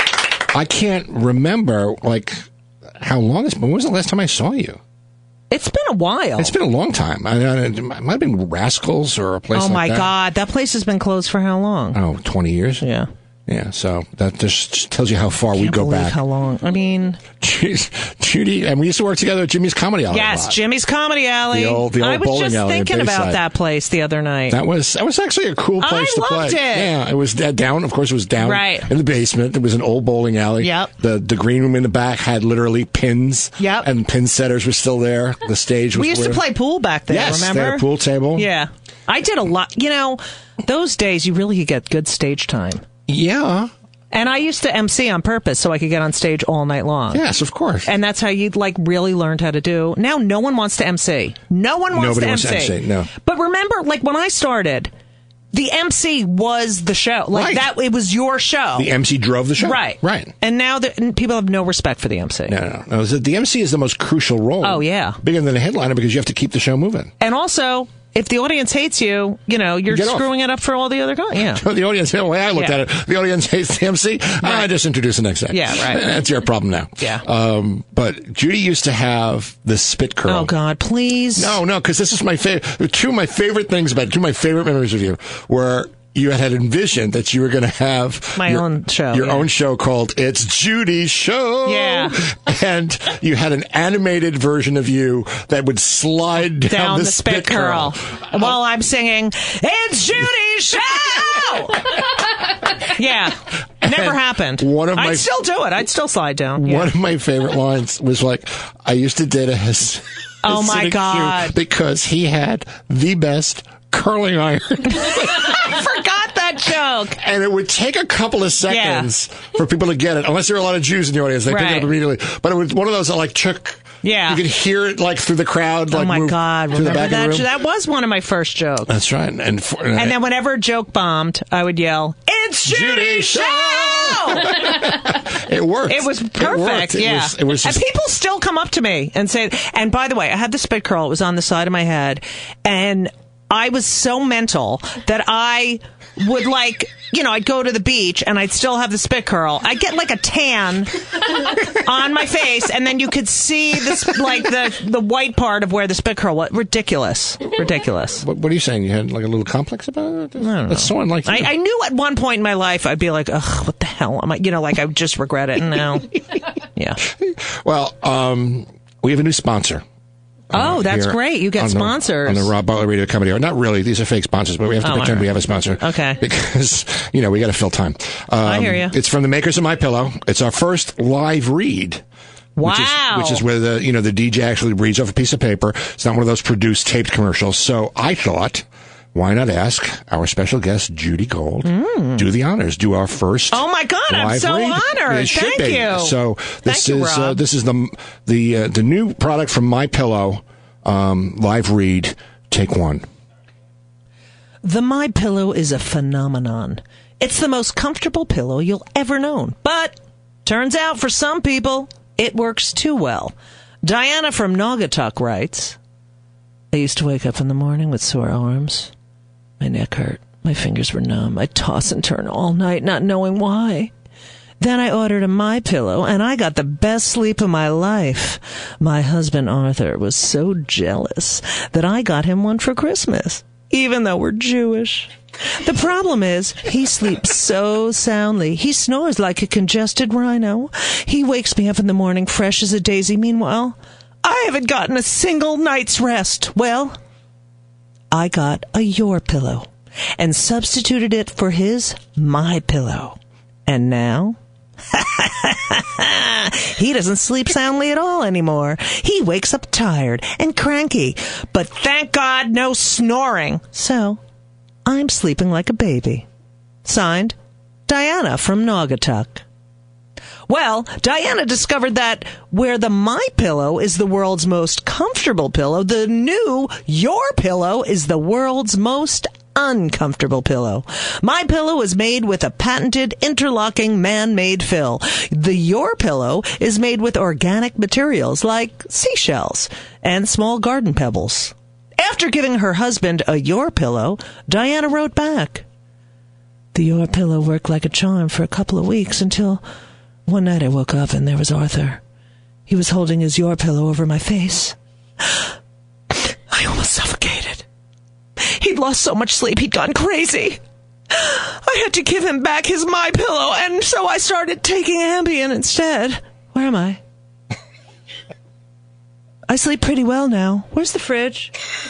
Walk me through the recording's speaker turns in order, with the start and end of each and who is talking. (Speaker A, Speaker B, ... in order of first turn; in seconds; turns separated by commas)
Speaker A: 0.5-2.4, Speaker A: 3.0-4.8, Speaker B: 5.5-6.5, Speaker A: 6.4-10.1, Speaker B: 9.5-12.0, Speaker A: 11.9-12.8, Speaker B: 12.8-13.1, Speaker A: 13.5-16.2, Speaker B: 15.5-17.2, Speaker A: 17.4-20.6, Speaker B: 20.1-24.6, Speaker A: 21.5-23.4, Speaker A: 24.5-36.4, Speaker B: 25.8-26.9, Speaker B: 28.4-28.9, Speaker B: 30.6-30.9, Speaker B: 33.6-33.9, Speaker B: 35.9-42.8, Speaker A: 37.1-38.5, Speaker A: 43.1-43.7, Speaker B: 44.1-47.2, Speaker A: 47.1-47.9, Speaker B: 47.9-54.9, Speaker A: 51.9-53.1, Speaker B: 55.5-58.9, Speaker A: 57.3-57.7, Speaker A: 58.8-60.3, Speaker B: 59.6-62.6, Speaker A: 62.5-67.1, Speaker B: 64.6-65.2, Speaker B: 67.2-71.6, Speaker A: 69.9-70.3, Speaker A: 71.3-80.5, Speaker B: 74.4-74.7, Speaker B: 75.5-76.0, Speaker B: 80.3-81.6, Speaker A: 81.4-98.5, Speaker B: 88.4-89.5, Speaker B: 91.7-92.2, Speaker B: 96.7-101.9, Speaker B: 102.8-106.9, Speaker A: 103.8-105.3, Speaker A: 106.6-115.8, Speaker B: 110.4-111.5, Speaker B: 115.1-117.2, Speaker A: 117.2-127.5, Speaker B: 118.7-119.1, Speaker B: 121.5-121.9, Speaker B: 124.0-124.4, Speaker B: 125.9-128.9, Speaker A: 128.9-130.2, Speaker B: 129.9-134.8, Speaker A: 132.7-137.8, Speaker B: 135.9-150.9, Speaker B: 151.6-158.2, Speaker A: 158.2-161.5, Speaker B: 160.4-166.1, Speaker A: 167.1-169.8, Speaker A: 170.5-182.0, Speaker B: 170.5-172.5, Speaker B: 174.8-176.2, Speaker B: 178.4-178.9, Speaker B: 182.6-183.4, Speaker A: 182.6-203.1, Speaker B: 191.7-192.3, Speaker B: 193.5-197.4, Speaker B: 204.6-215.8, Speaker B: 216.7-218.9, Speaker B: 219.6-223.9, Speaker B: 224.6-247.0, Speaker B: 248.1-254.4, Speaker B: 254.9-264.2, Speaker B: 264.9-266.3, Speaker B: 266.9-267.4, Speaker B: 267.9-269.4, Speaker B: 270.5-295.6, Speaker B: 296.7-299.6, Speaker B: 300.3-302.0, Speaker B: 302.7-305.4, Speaker B: 306.1-307.6, Speaker B: 308.4-317.0, Speaker B: 319.5-321.5